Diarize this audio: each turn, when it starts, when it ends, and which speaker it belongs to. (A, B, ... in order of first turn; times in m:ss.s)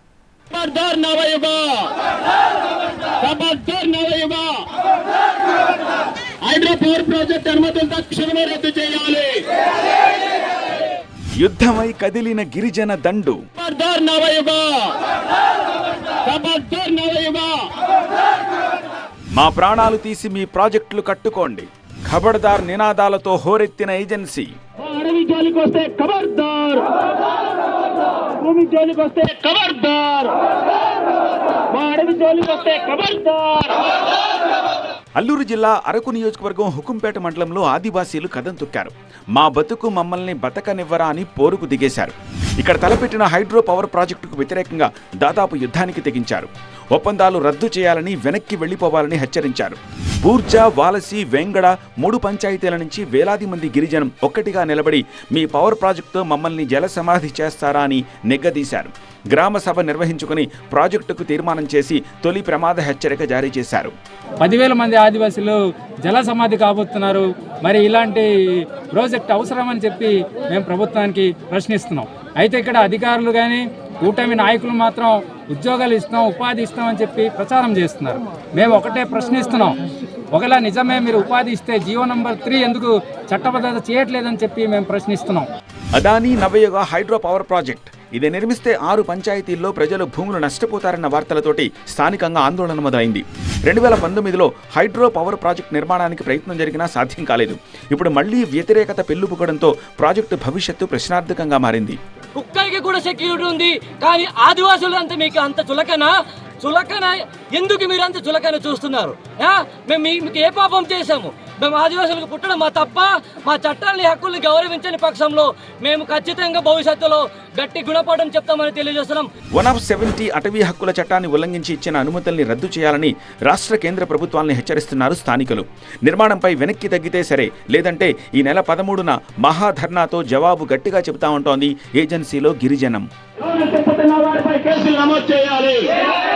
0:00.5-0:01.9 A
0:03.2-0:04.5 A
0:06.4-0:09.3 A
0:11.4-0:13.4 B
0:13.6-0:14.9 A
0:16.2-0:17.5 A
0:19.3-0:24.5 B
0:24.8-0:26.8 A
0:28.4-0:30.3 A
0:31.7-0:33.8 A
0:35.2-1:03.9 B
1:04.4-1:19.8 C
1:20.3-1:25.5 C
1:26.0-1:42.0 B
1:42.4-1:59.3 D
1:59.5-2:13.0 B
2:13.4-2:15.9 A